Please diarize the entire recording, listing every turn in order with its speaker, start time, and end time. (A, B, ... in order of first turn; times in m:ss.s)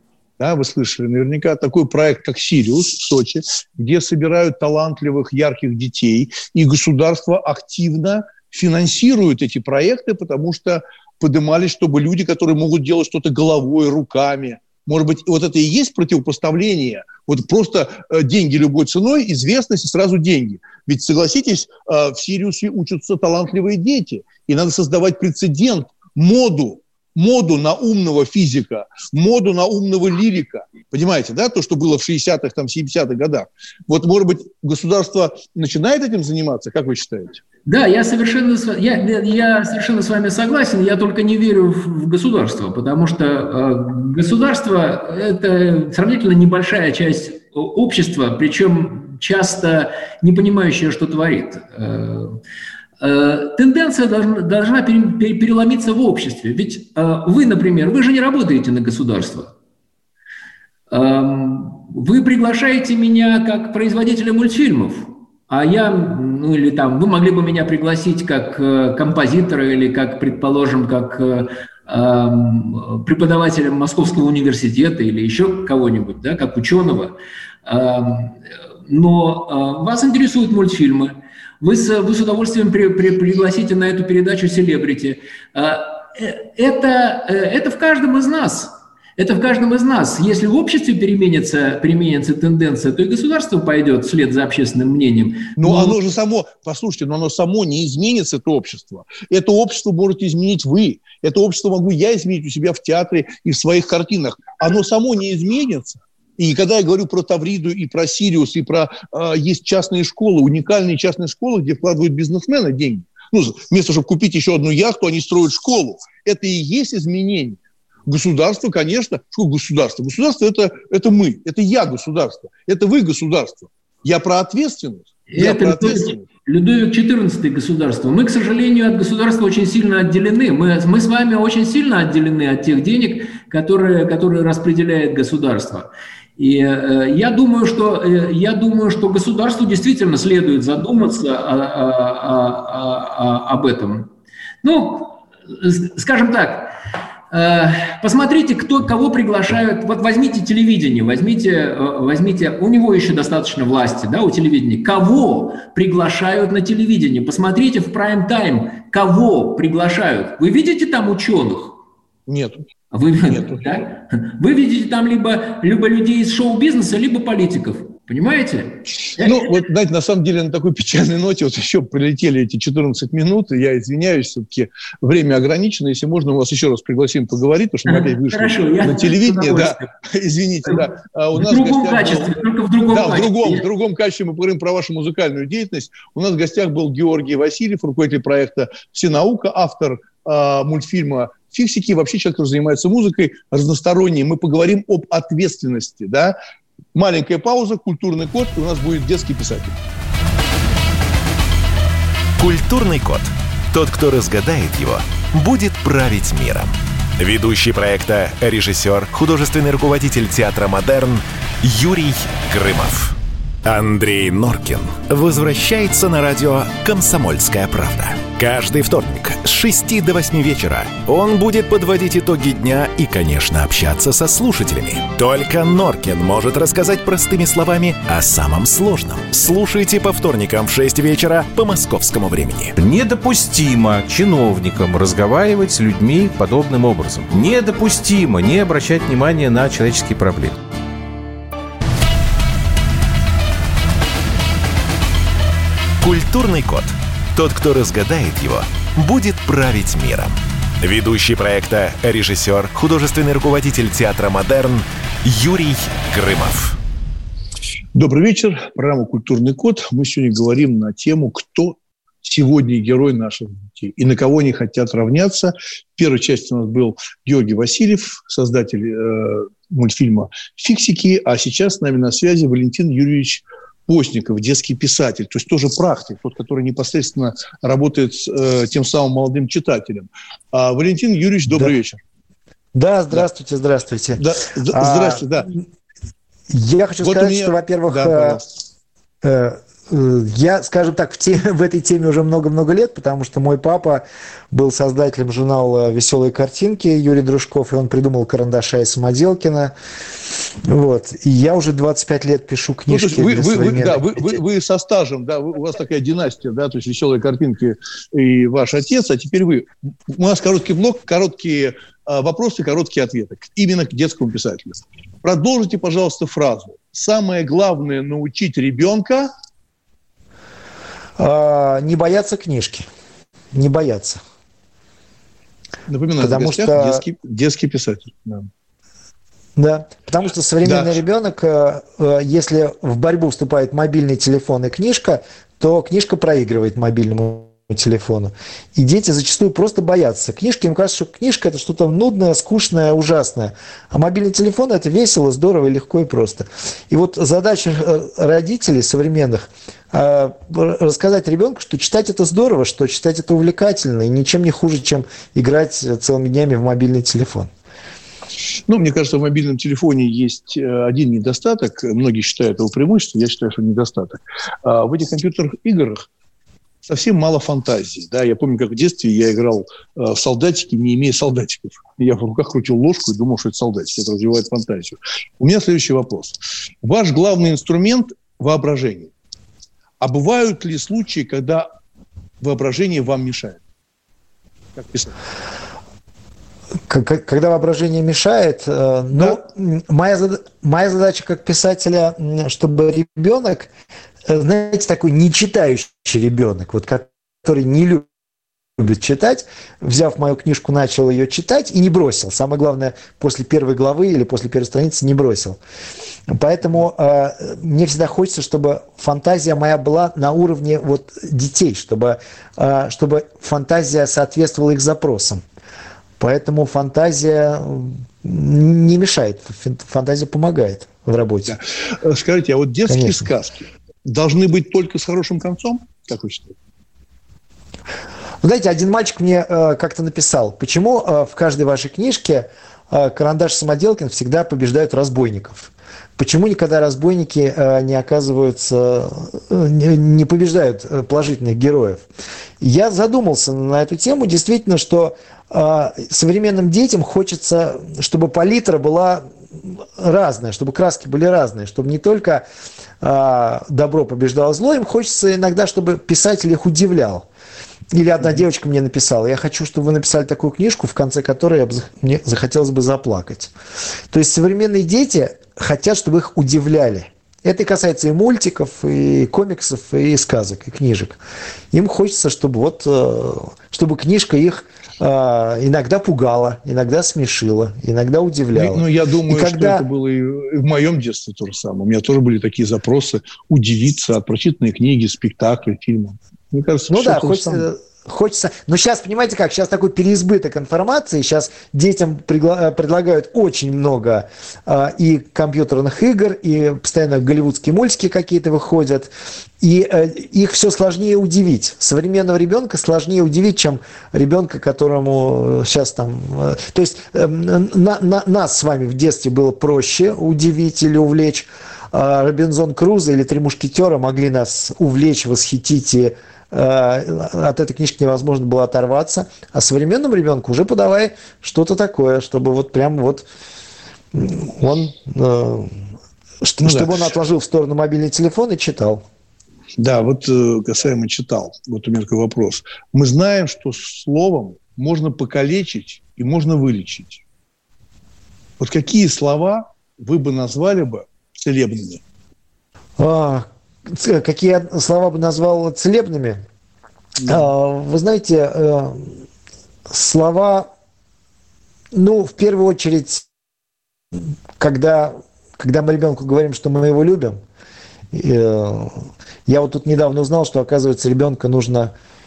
0:00.4-0:37.4 A
0:37.7-0:52.4 B
0:53.0-0:59.5 B
1:00.9-1:36.0 B
1:35.6-2:06.3 A
2:05.3-2:24.1 B
2:24.6-2:26.7 B
2:27.3-2:41.8 B
2:42.3-2:42.6 A
2:42.9-2:49.6 B
2:43.2-2:43.6 A
2:49.0-3:16.4 A
2:57.9-2:59.9 B
3:00.6-3:03.7 B
3:16.9-3:19.8 A
3:22.4-3:52.8 C
3:52.8-4:00.6 D
4:06.0-4:16.8 C
4:17.9-4:42.0 A
4:42.8-4:45.6 E
4:44.2-4:45.5 A
4:46.5-4:48.4 E
4:47.0-4:48.4 A
4:49.2-4:59.7 E
5:00.6-5:04.2 E
5:02.9-5:19.3 A
5:21.2-5:22.9 E
5:23.5-5:24.2 E
5:25.9-5:28.5 A
5:26.2-5:27.0 E
5:29.6-5:57.5 E
5:30.6-5:31.0 A
5:58.7-6:06.1 A
6:06.8-6:19.1 A
6:20.0-6:21.7 A
6:22.4-6:23.6 A
6:24.8-6:25.2 A
6:26.9-6:33.7 E
6:29.1-6:29.4 A
6:34.3-6:38.1 E
6:38.8-6:45.6 E
6:46.3-6:55.4 E
6:56.2-7:01.6 E
7:01.5-7:06.6 A
7:02.9-7:03.2 E
7:08.4-7:22.0 E
7:22.6-7:32.4 E
7:33.0-7:37.3 E
7:37.9-7:43.5 E
7:44.1-7:51.2 E
7:51.7-7:59.8 E
7:58.5-8:07.7 A
8:06.9-8:43.3 E
8:44.1-8:45.8 E
8:46.4-8:49.0 E
8:46.6-8:47.0 A
8:49.8-8:57.2 A
8:58.6-9:02.0 A
9:03.0-9:06.4 E
9:07.2-9:09.2 E
9:09.9-9:10.7 E
9:11.9-9:13.3 E
9:14.6-9:17.4 E
9:18.1-9:21.9 E